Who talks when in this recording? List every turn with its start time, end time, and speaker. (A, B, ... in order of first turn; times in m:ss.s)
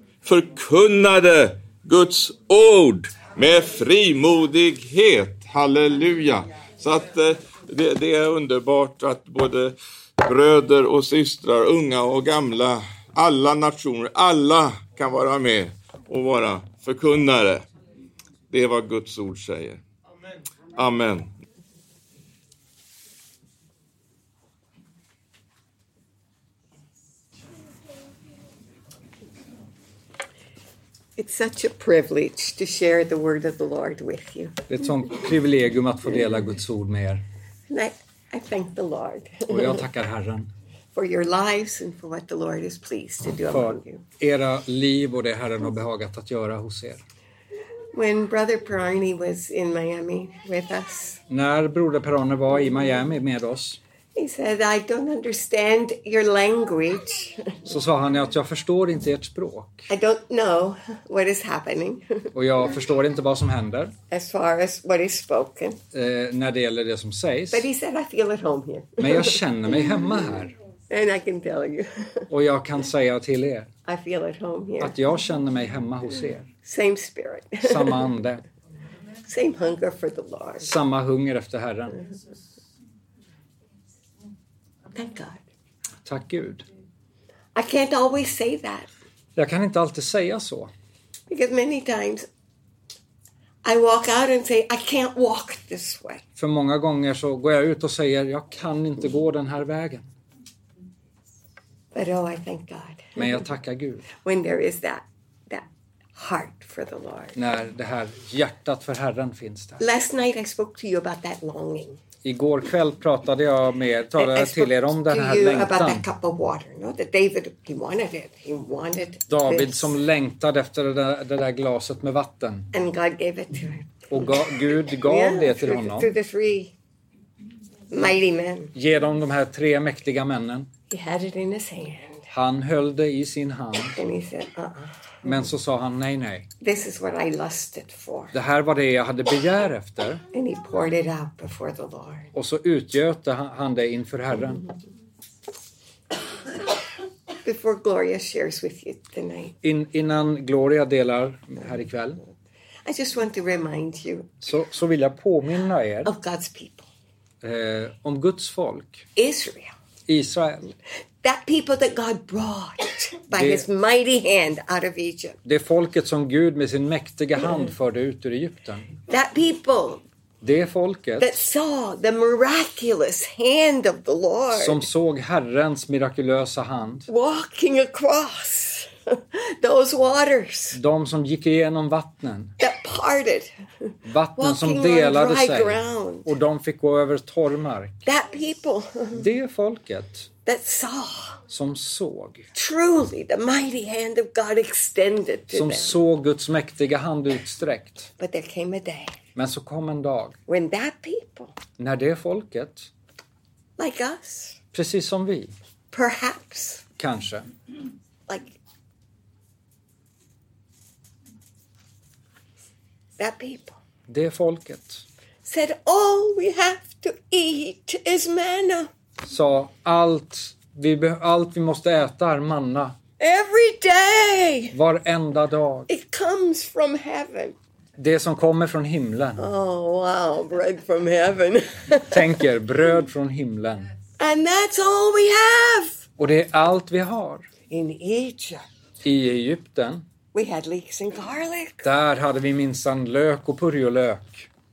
0:00.2-0:17.7 A
0:18.5-0:19.8 A
0:20.8-0:21.3 A
0:31.2-0:34.6 B
0:34.7-0:37.2 C
0:37.7-0:39.8 B
0:39.5-0:40.5 C
0:40.9-0:44.0 B
0:43.5-0:47.0 C
0:47.9-0:51.2 B
0:51.3-0:53.8 C
0:54.2-0:57.6 B
0:57.7-0:59.9 C
0:59.9-1:02.3 B
1:02.3-1:04.0 C
1:04.1-1:05.8 B
1:05.9-1:07.7 C
1:07.5-1:09.4 B
1:09.0-1:10.6 C
1:10.9-1:12.3 B
1:12.3-1:13.7 C
1:13.9-1:15.0 B
1:14.8-1:16.5 C
1:16.6-1:18.1 B
1:17.6-1:18.4 C
1:19.3-1:20.8 B
1:20.6-1:22.0 C
1:24.9-1:25.4 B
1:26.0-1:26.6 C
1:27.6-1:28.9 B
1:29.4-1:30.7 C
1:31.3-1:32.3 B
1:33.6-1:36.2 B
1:36.4-1:40.1 C
1:41.9-1:43.2 B
1:43.2-1:44.1 C
1:44.2-1:47.4 B
1:47.4-1:49.8 C
1:49.8-1:52.0 B
1:52.2-1:56.0 C
1:54.2-1:59.9 B
1:59.3-2:02.7 C
2:02.7-2:06.7 B
2:04.1-2:06.1 C
2:07.9-2:08.7 B
2:08.7-2:10.7 C
2:10.9-2:12.3 B
2:12.3-2:14.0 C
2:13.9-2:15.3 B
2:15.2-2:16.5 C
2:16.6-2:18.4 B
2:18.3-2:20.2 C
2:20.3-2:22.3 B
2:22.3-2:24.7 C
2:27.4-2:29.6 B
2:29.6-2:32.2 C
2:32.8-2:34.3 B
2:34.4-2:36.1 C
2:36.0-2:36.9 B
2:37.4-2:39.1 C
2:39.2-2:39.7 B
2:40.1-2:40.7 C
2:41.2-2:45.4 B
2:43.3-2:43.7 C
2:45.4-2:48.9 C
2:49.1-2:50.0 B
2:50.4-2:51.4 C
2:51.2-2:54.8 B
2:54.5-2:57.1 C
2:57.1-3:00.8 B
3:00.7-3:02.6 C
3:02.6-3:06.3 B
3:04.0-3:08.0 C
3:08.1-3:09.3 B
3:09.2-3:10.3 C
3:10.5-3:11.4 B
3:11.5-3:12.4 C
3:12.5-3:16.0 B
3:15.5-3:18.1 C
3:18.2-3:19.2 B
3:19.4-3:20.4 C
3:20.5-3:21.6 B
3:21.8-3:22.9 C
3:23.8-3:24.6 B
3:24.7-3:25.6 C
3:25.9-3:26.8 B
3:27.0-3:27.5 C
3:28.3-3:28.6 B
3:33.2-3:33.8 B
3:34.1-3:35.0 C
3:35.4-3:38.9 B
3:39.2-3:43.0 C
3:43.2-3:44.8 B
3:44.7-3:45.9 C
3:45.9-3:47.6 B
3:48.0-3:49.5 C
3:49.4-3:52.4 B
3:52.1-3:53.9 C
3:54.2-3:56.0 B
3:56.2-3:57.5 C
3:57.7-3:58.6 B
3:59.0-4:00.0 C
4:00.3-4:01.9 B
4:01.8-4:04.5 C